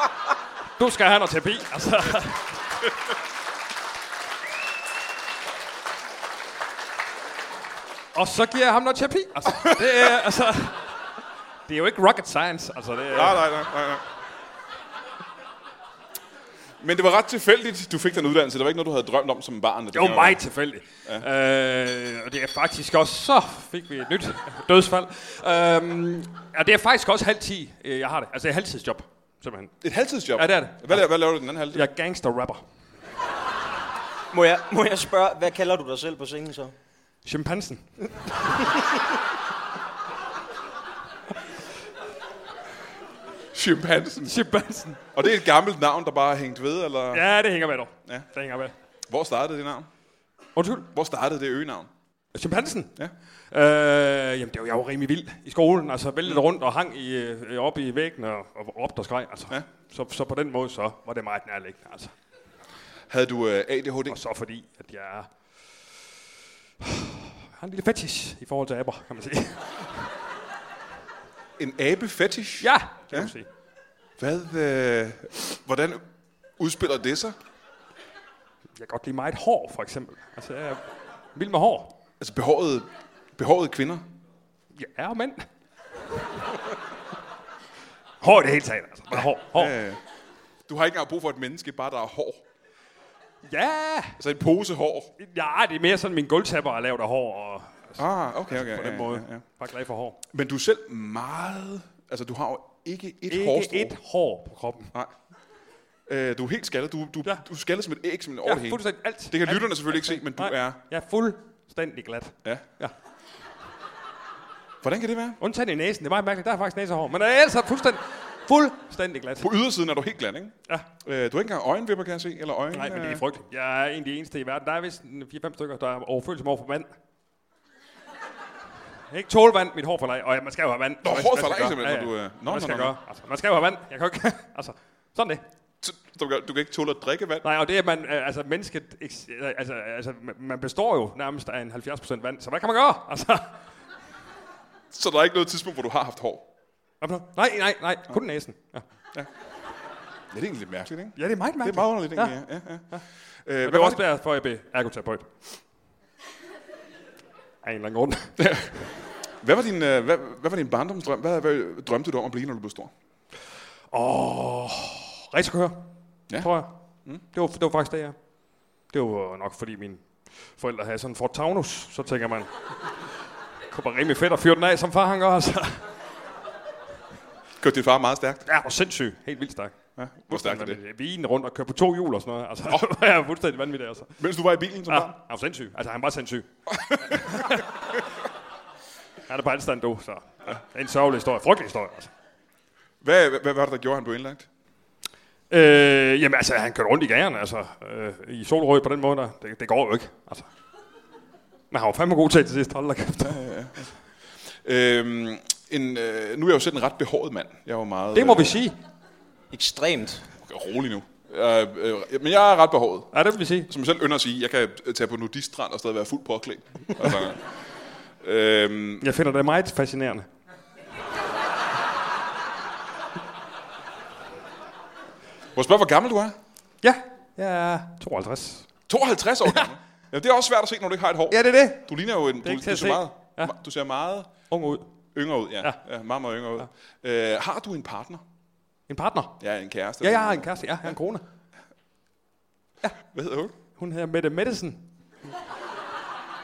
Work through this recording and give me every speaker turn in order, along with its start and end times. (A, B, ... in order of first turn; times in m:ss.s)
0:00.8-0:02.8 A
0:08.1-0:10.9 A
0:09.5-0:09.8 B
0:11.7-0:13.5 A
0:13.1-0:14.0 B
0:16.8-0:20.4 B
0:19.9-0:29.8 A
0:29.8-0:31.8 B
0:30.4-0:32.6 A
0:34.3-0:36.7 C
0:37.2-0:37.9 A
0:43.5-0:44.3 B
0:44.2-0:45.0 A
0:45.2-0:47.2 B
0:47.1-0:48.7 A
0:49.1-0:49.9 B
0:50.6-0:50.9 A
0:50.9-0:51.9 B
0:52.3-0:52.9 A
0:53.5-1:02.1 A
1:03.1-1:04.2 B
1:04.1-1:05.3 A
1:06.8-1:10.1 A
1:11.6-1:13.3 B
1:12.6-1:13.5 A
1:14.2-1:16.0 B
1:16.6-1:17.4 B
1:18.8-1:22.0 A
1:22.2-1:24.0 B
1:24.8-1:25.5 A
1:28.2-1:29.7 A
1:29.2-1:30.0 B
1:30.7-1:32.4 B
1:33.4-1:34.2 A
1:34.2-1:35.1 B
1:35.2-1:40.2 A
1:38.0-1:39.4 B
1:40.3-1:43.9 B
1:43.3-1:44.9 A
1:46.1-1:50.8 B
1:48.4-1:52.9 A
1:54.8-1:55.4 B
1:55.4-1:59.5 A
1:59.4-2:03.2 B
2:02.7-2:06.9 A
2:09.1-2:15.4 A
2:11.0-2:12.9 B
2:15.8-2:17.4 B
2:17.4-2:23.6 A
2:24.9-2:26.5 B
2:27.0-2:28.8 A
2:30.3-2:32.9 B
2:31.2-2:32.4 A
2:33.5-2:34.0 B
2:33.6-2:35.6 A
2:37.6-2:38.4 A
2:38.4-2:38.8 B
2:39.4-2:42.9 B
2:43.9-2:45.9 A
2:46.4-2:46.7 A
2:47.3-2:48.2 A
2:48.9-2:52.5 A
2:53.7-2:55.8 A
2:57.6-2:58.4 B
2:58.5-2:59.8 A
3:00.0-3:00.8 B
3:00.3-3:04.2 A
3:04.2-3:05.2 B
3:04.9-3:07.7 A
3:06.7-3:07.6 B
3:09.3-3:12.1 A
3:13.0-3:14.5 B
3:15.5-3:20.5 A
3:21.7-3:23.5 A
3:23.2-3:23.9 B
3:24.6-3:28.6 B
3:28.1-3:28.8 A
3:29.5-3:30.3 C
3:30.4-3:33.1 B
3:33.1-3:33.7 A
3:33.7-3:37.4 B
3:38.2-3:39.0 B
3:39.0-3:40.3 A
3:45.6-3:46.4 B
3:46.8-3:48.7 A
3:48.9-3:54.3 B
3:51.3-3:51.9 A
3:52.4-3:53.5 A
3:54.5-3:54.9 A
3:55.2-3:58.2 B
3:58.9-3:59.4 A
3:59.4-4:00.9 B
4:00.0-4:01.2 A
4:03.0-4:03.6 B
4:03.8-4:04.9 A